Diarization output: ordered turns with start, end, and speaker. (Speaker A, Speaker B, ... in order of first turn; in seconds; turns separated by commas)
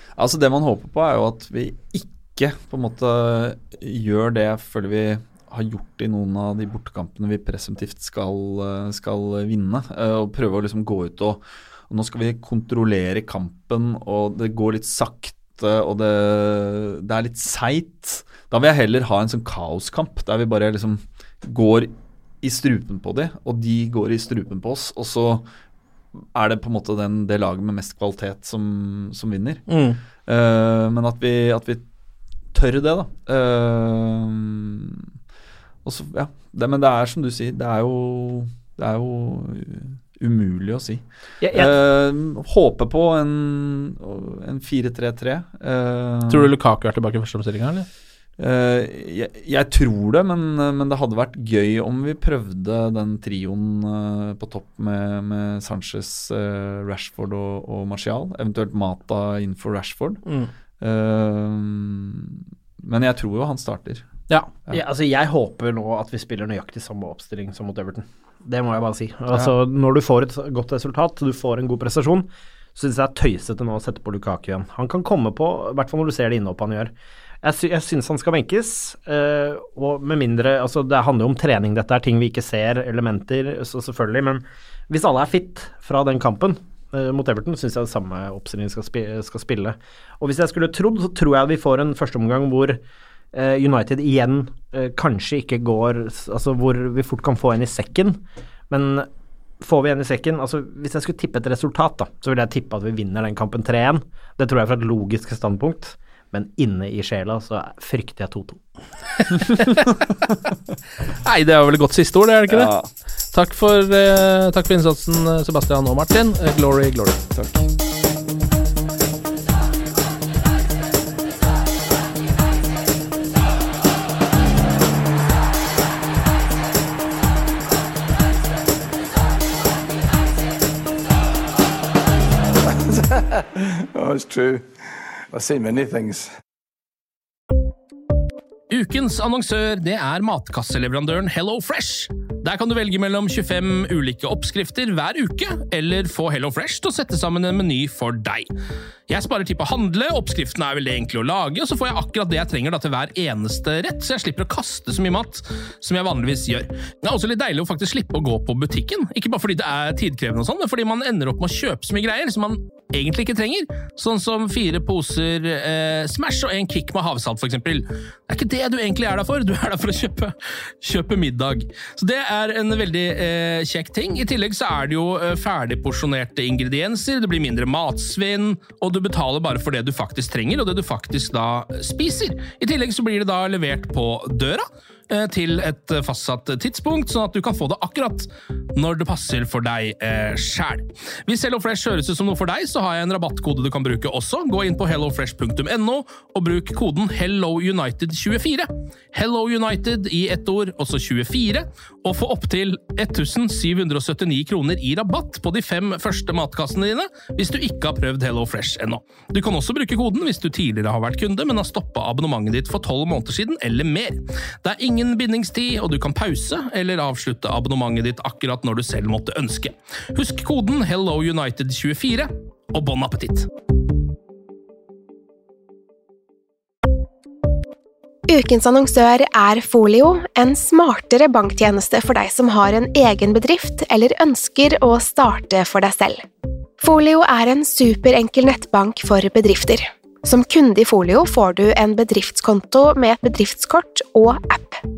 Speaker A: 0.2-25.5, Speaker A: 26.3-29.6, Speaker B: 29.7-30.0, Speaker A: 30.2-31.8, Speaker A: 32.5-35.1, Speaker A: 35.8-46.5, Speaker C: 41.4-41.7, Speaker B: 46.3-47.9, Speaker A: 48.4-60.2, Speaker A: 60.8-64.1, Speaker C: 64.7-76.9, Speaker C: 77.4-92.8, Speaker C: 93.3-99.1, Speaker C: 99.6-108.6, Speaker B: 109.3-109.9, Speaker B: 111.2-112.7, Speaker A: 112.5-112.9, Speaker B: 113.3-117.2, Speaker A: 117.3-117.7, Speaker D: 132.9-134.6, Speaker D: 135.3-136.3, Speaker B: 138.7-148.5, Speaker B: 149.1-223.5, Speaker E: 228.3-236.2, Speaker E: 236.8-244.8